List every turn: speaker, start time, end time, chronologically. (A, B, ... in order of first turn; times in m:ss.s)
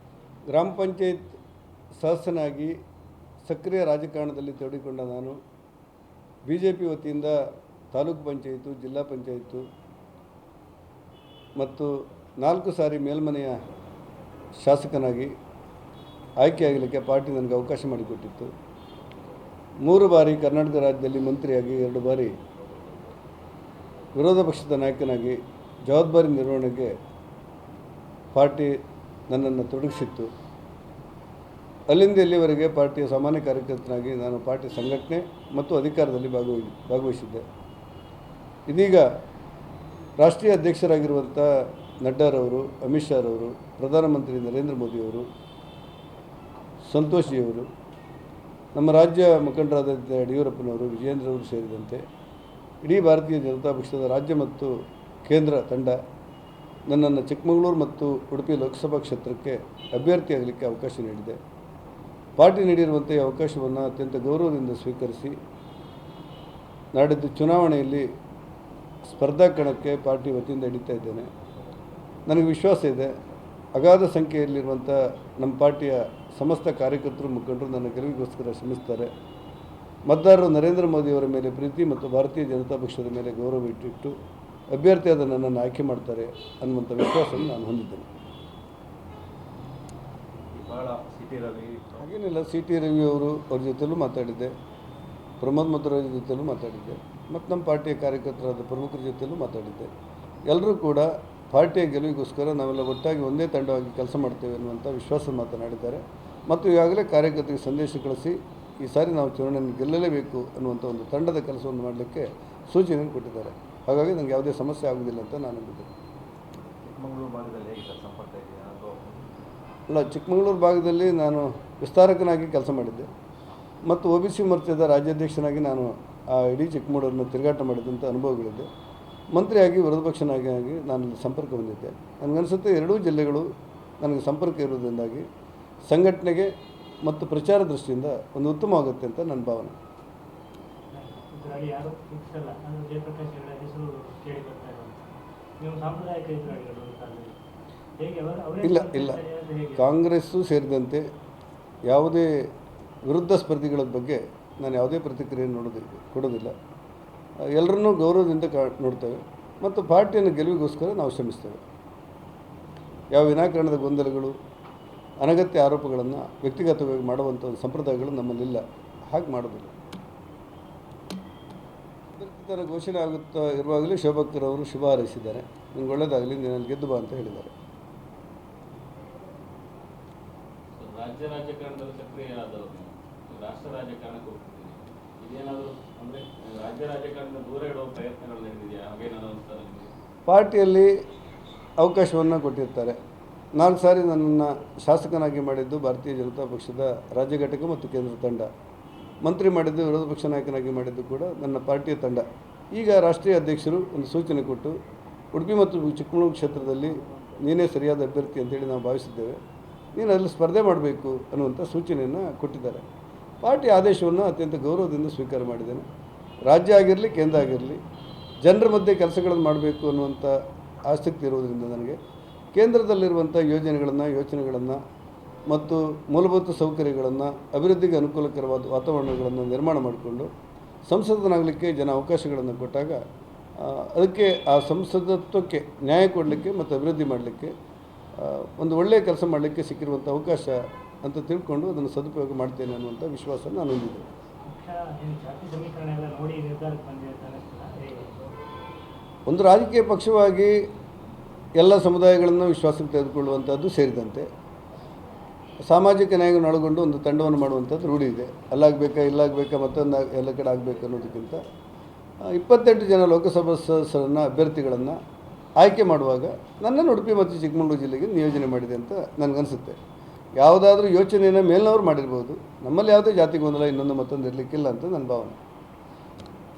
0:00.5-0:01.4 A
0:02.0-0:02.7 A
0:03.4-0:05.4 A
0:06.4-0:09.7 A
0:11.6-0:13.6 A
0:14.6-0:15.3 A
0:16.4-0:18.5 A
0:19.8-0:22.4 A
0:24.1-0:27.0 A
0:28.3-0:30.3 A
0:31.9-0:37.4 A
0:38.7-0:39.1 A
0:40.2-0:45.3 A
0:46.8-0:47.7 A
0:48.7-0:52.0 A
0:52.8-0:56.0 A
0:56.9-1:01.4 A
1:02.4-1:05.4 A
1:06.9-1:08.1 A
1:09.0-1:11.3 A
1:12.3-1:13.1 A
1:13.7-1:19.1 A
1:20.1-1:24.2 A
1:24.7-1:28.1 A
1:30.5-1:32.0 B
1:32.0-1:34.5 A
1:35.4-1:39.9 A
1:40.5-1:55.9 A
1:56.8-1:59.2 B
1:59.9-2:03.1 A
2:03.8-2:08.7 A
2:09.3-2:15.2 A
2:15.9-2:19.8 A
2:20.9-2:25.0 C
2:25.6-2:27.4 C
2:28.0-2:29.9 C
2:28.6-2:29.2 A
2:29.8-2:31.1 A
2:31.8-2:32.5 A
2:33.0-2:36.5 A
2:37.4-2:41.6 A
2:43.1-2:44.4 A
2:45.2-2:49.7 A
2:52.1-2:57.5 A
3:00.8-3:09.9 D
3:10.3-3:10.9 A
3:11.8-3:13.0 A
3:13.6-3:18.5 A
3:19.2-3:24.8 A
3:25.3-3:29.4 A
3:29.9-3:32.8 A
3:33.4-3:35.8 A
3:36.5-3:37.8 A
3:38.4-3:42.0 A
3:42.5-3:44.8 A
3:45.5-3:50.3 A
3:50.8-3:53.0 A
3:53.6-3:57.5 A
3:58.2-4:04.1 A
4:04.5-4:08.1 C
4:09.3-4:10.7 A
4:11.6-4:14.3 A
4:15.7-4:21.4 A
4:22.2-4:25.0 A
4:25.6-4:29.8 A
4:30.4-4:35.4 A